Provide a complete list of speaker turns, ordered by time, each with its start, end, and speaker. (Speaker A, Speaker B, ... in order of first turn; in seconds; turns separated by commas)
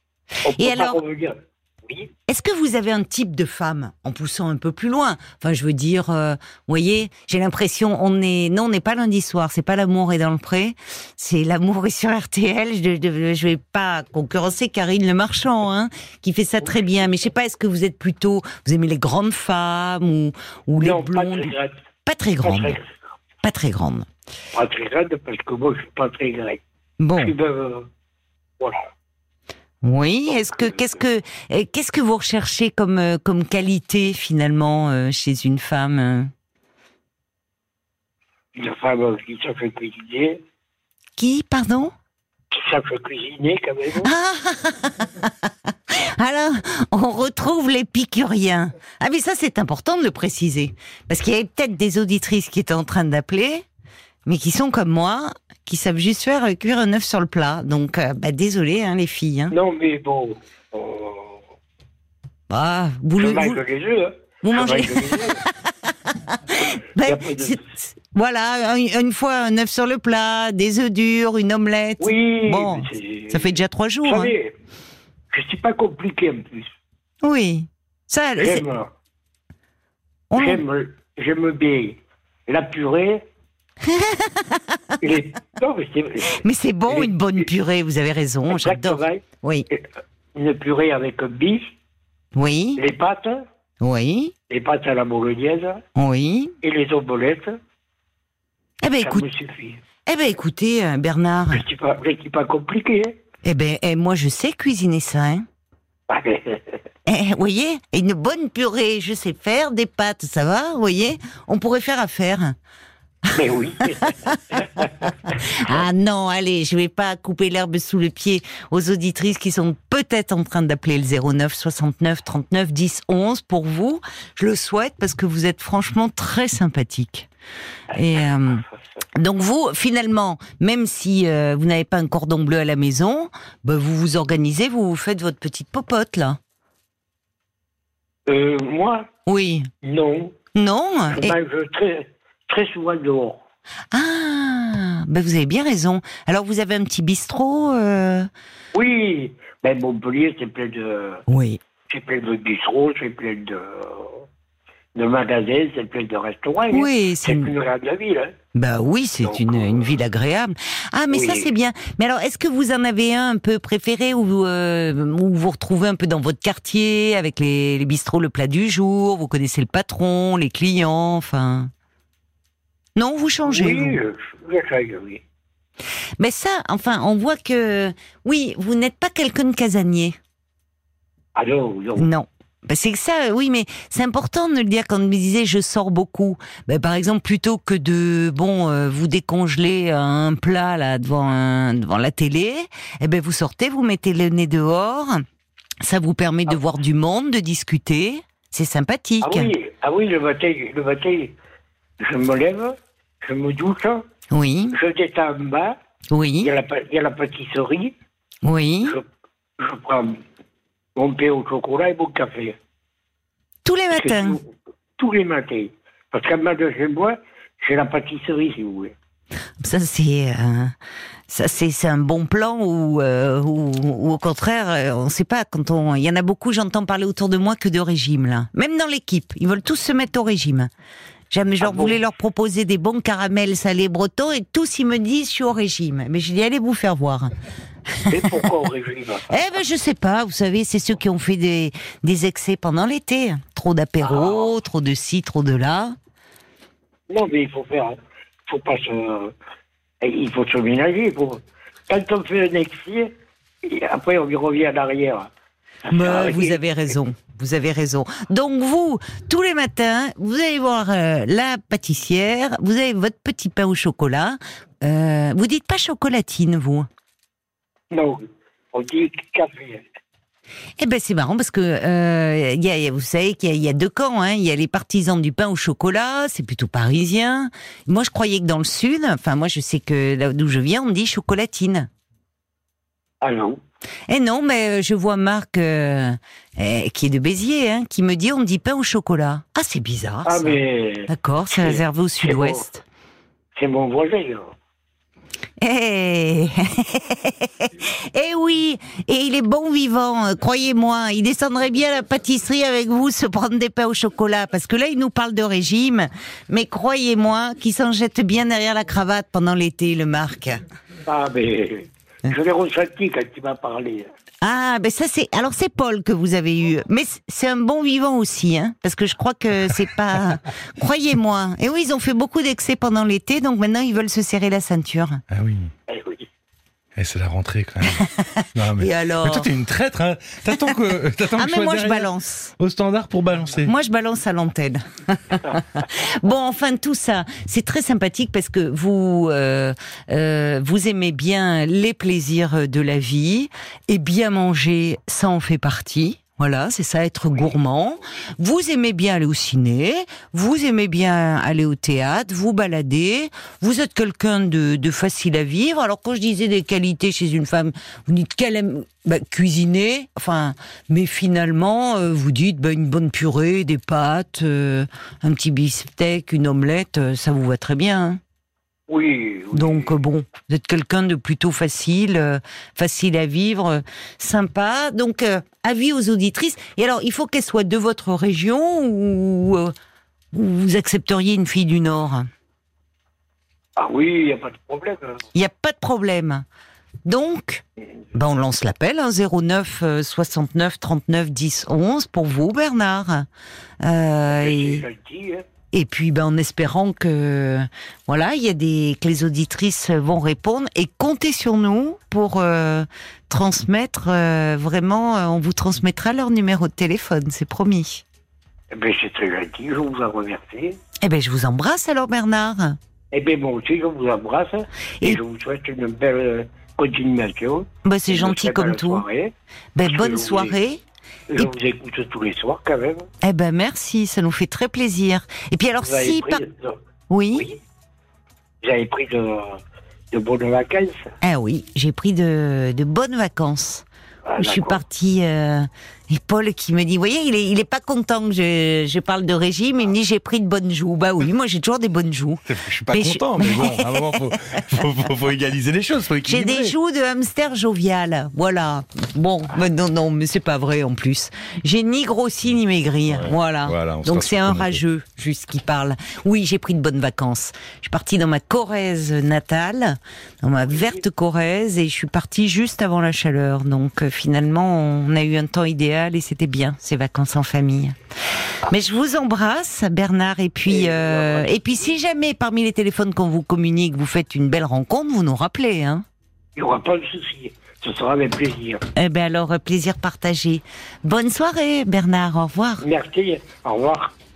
Speaker A: 0.4-2.1, Speaker B: 0.6-1.0, Speaker B: 2.3-21.6, Speaker A: 20.8-21.8, Speaker B: 22.1-22.8, Speaker A: 22.4-23.0, Speaker B: 23.4-24.1, Speaker A: 24.5-26.6, Speaker B: 27.0-27.3, Speaker A: 27.2-27.9, Speaker A: 28.6-28.9, Speaker B: 29.8-36.3, Speaker A: 30.3-31.0, Speaker A: 38.5-40.4, Speaker B: 41.2-41.9, Speaker A: 42.5-44.1, Speaker B: 44.0-53.6, Speaker B: 54.3-59.5, Speaker A: 59.5-61.4, Speaker B: 62.5-63.6, Speaker A: 63.2-65.4, Speaker B: 64.4-74.3, Speaker A: 66.7-67.7, Speaker A: 72.0-74.6, Speaker A: 75.3-76.7, Speaker B: 77.2-78.7, Speaker A: 78.4-78.9, Speaker B: 80.3-80.6, Speaker A: 80.3-83.2, Speaker B: 83.8-84.9, Speaker A: 85.0-87.5, Speaker B: 86.4-89.7, Speaker A: 88.5-91.7, Speaker B: 92.3-92.8, Speaker A: 92.8-93.4, Speaker B: 93.8-94.3, Speaker A: 94.5-95.8, Speaker B: 96.0-96.5, Speaker A: 96.6-97.6, Speaker B: 98.8-99.3, Speaker A: 99.0-99.8, Speaker B: 100.1-101.6, Speaker A: 101.5-103.2, Speaker B: 103.4-105.5, Speaker A: 106.1-106.8, Speaker B: 107.1-112.6, Speaker A: 113.3-115.8, Speaker B: 114.0-127.3, Speaker B: 127.9-128.6, Speaker B: 129.2-136.4, Speaker A: 138.3-139.1, Speaker B: 139.3-139.7, Speaker A: 139.8-140.3, Speaker B: 140.6-141.4, Speaker A: 141.1-143.4, Speaker B: 143.9-148.3, Speaker A: 148.7-151.2, Speaker B: 151.3-151.6, Speaker A: 151.9-154.3, Speaker A: 154.9-158.3, Speaker B: 156.7-157.5, Speaker B: 158.6-171.7, Speaker A: 159.2-159.9, Speaker A: 161.1-161.5, Speaker B: 173.0-174.0, Speaker A: 173.5-175.2, Speaker B: 176.2-180.2, Speaker A: 181.3-182.1, Speaker B: 182.0-195.2, Speaker B: 195.8-199.5, Speaker A: 199.2-201.4, Speaker A: 202.0-204.1, Speaker B: 204.3-204.8, Speaker A: 204.7-205.8, Speaker B: 206.1-206.5, Speaker A: 206.4-207.9, Speaker B: 208.4-209.0, Speaker A: 209.6-210.2, Speaker A: 211.0-212.6, Speaker B: 213.6-214.4, Speaker A: 213.9-218.9, Speaker B: 219.6-220.8, Speaker B: 221.3-230.7, Speaker B: 231.3-237.3, Speaker A: 231.6-232.0, Speaker B: 238.0-238.4, Speaker A: 238.1-239.5, Speaker B: 239.3-245.9, Speaker A: 244.0-244.5, Speaker A: 247.1-249.3, Speaker A: 250.0-255.3, Speaker A: 255.9-256.6, Speaker B: 255.9-266.9, Speaker A: 267.9-269.8, Speaker B: 270.8-281.9, Speaker A: 283.2-283.6, Speaker B: 284.1-292.9, Speaker A: 290.2-292.6, Speaker A: 293.6-294.5, Speaker B: 295.6-310.6, Speaker A: 311.1-314.1, Speaker B: 314.4-325.2, Speaker C: 325.3-325.7, Speaker A: 325.9-326.3, Speaker C: 327.0-333.7, Speaker B: 328.1-329.5, Speaker B: 331.3-332.5, Speaker B: 333.6-368.2, Speaker A: 368.9-369.9, Speaker B: 369.5-379.7, Speaker B: 380.3-382.3, Speaker A: 383.8-385.2, Speaker B: 385.3-386.4, Speaker B: 387.1-393.3, Speaker B: 393.8-394.9, Speaker A: 394.3-395.4, Speaker B: 395.7-408.0, Speaker A: 408.7-410.8, Speaker B: 411.0-412.8, Speaker A: 413.1-420.6, Speaker B: 417.8-419.1, Speaker B: 419.8-420.8, Speaker A: 421.3-423.1, Speaker B: 423.2-426.4, Speaker A: 425.8-426.8, Speaker B: 427.1-427.5, Speaker A: 427.3-427.6, Speaker A: 428.6-429.6, Speaker A: 430.1-431.1, Speaker B: 431.2-433.9, Speaker A: 434.2-434.8, Speaker B: 434.4-444.8, Speaker C: 442.5-446.8, Speaker B: 446.2-467.9, Speaker C: 453.1-454.8, Speaker B: 468.7-476.1, Speaker A: 470.7-472.0, Speaker A: 476.6-478.8, Speaker B: 478.9-482.8, Speaker A: 482.8-484.1